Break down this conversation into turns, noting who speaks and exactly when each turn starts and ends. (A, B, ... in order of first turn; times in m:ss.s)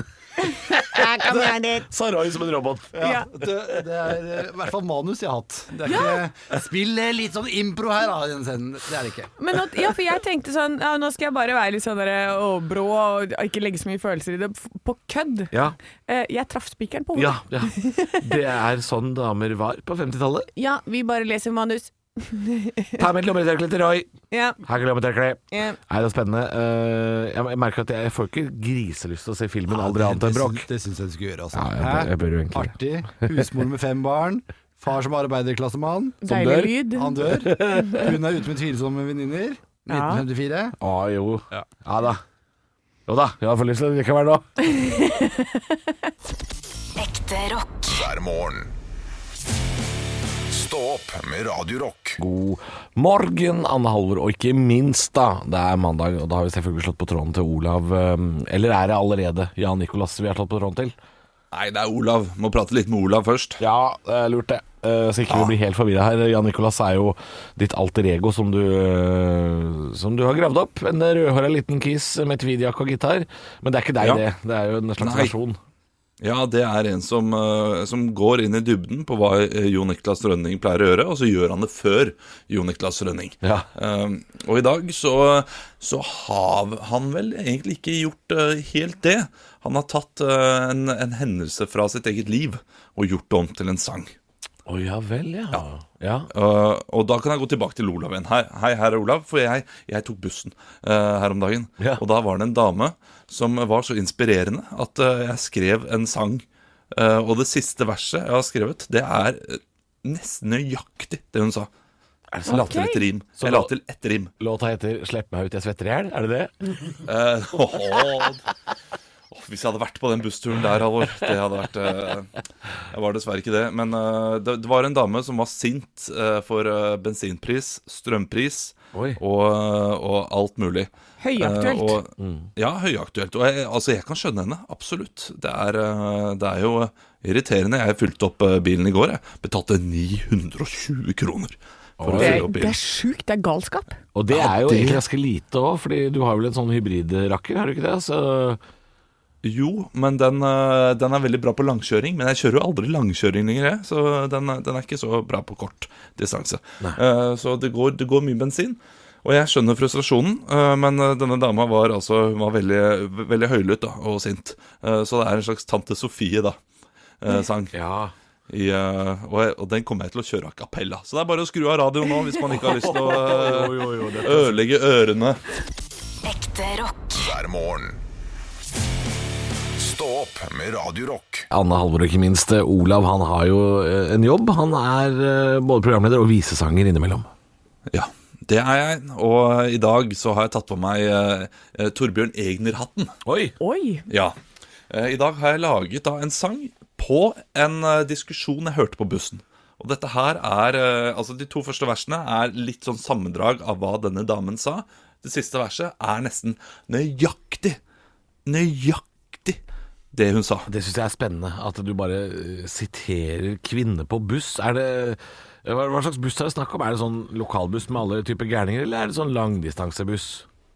0:00.6-0:03.0 A
0:00.9-0:01.8 B
0:02.9-0:09.3 C
0:03.0-0:03.3 B
0:05.9-0:06.2 B
0:09.4-0:15.5 B
0:16.1-0:18.2 B
0:17.1-0:20.5 A
0:20.6-0:23.0 B
0:23.0-0:30.7 A
0:24.3-0:24.6 B
0:25.5-0:25.8 B
0:29.7-0:36.2 C
0:31.5-0:33.4 A
0:36.2-0:37.1 B
0:36.2-0:38.1 A
0:36.9-0:40.7 C
0:37.8-0:38.0 B
0:39.9-0:40.2 B
0:40.8-0:42.2 A
0:43.1-0:44.4 A
0:44.7-0:45.6 B
0:47.0-0:48.0 D
0:47.9-0:48.7 E
0:50.5-0:52.2 E
0:52.2-1:00.9 A
1:01.5-1:03.6 F
1:03.6-1:15.6 A
1:15.0-1:15.3 F
1:16.2-1:34.1 F
1:23.4-1:23.7 A
1:34.6-1:36.3 A
1:36.3-1:51.7 F
1:52.3-1:52.8 A
1:52.4-1:53.0 B
1:52.5-1:54.3 F
1:53.4-1:53.7 A
1:54.4-1:56.5 A
1:57.0-1:58.4 F
1:59.3-2:02.3 F
2:02.9-2:22.8 F
2:08.9-2:09.2 A
2:11.2-2:12.0 B
2:12.2-2:12.5 A
2:22.0-2:22.5 A
2:22.2-2:23.9 B
2:24.1-2:28.6 A
2:24.3-2:25.0 F
2:29.4-2:46.6 F
2:47.2-2:47.7 F
2:47.7-2:48.1 A
2:48.5-2:55.4 F
2:52.5-2:54.6 A
2:56.2-2:57.2 D
2:57.2-2:58.0 E
2:59.8-3:01.5 E
3:01.5-3:07.3 A
3:07.9-3:13.1 F
3:13.2-3:13.5 A
3:13.6-3:14.1 B
3:14.1-3:14.4 F
3:14.9-3:27.8 F
3:28.4-3:29.6 F
3:30.1-3:30.7 F
3:30.7-3:40.4 A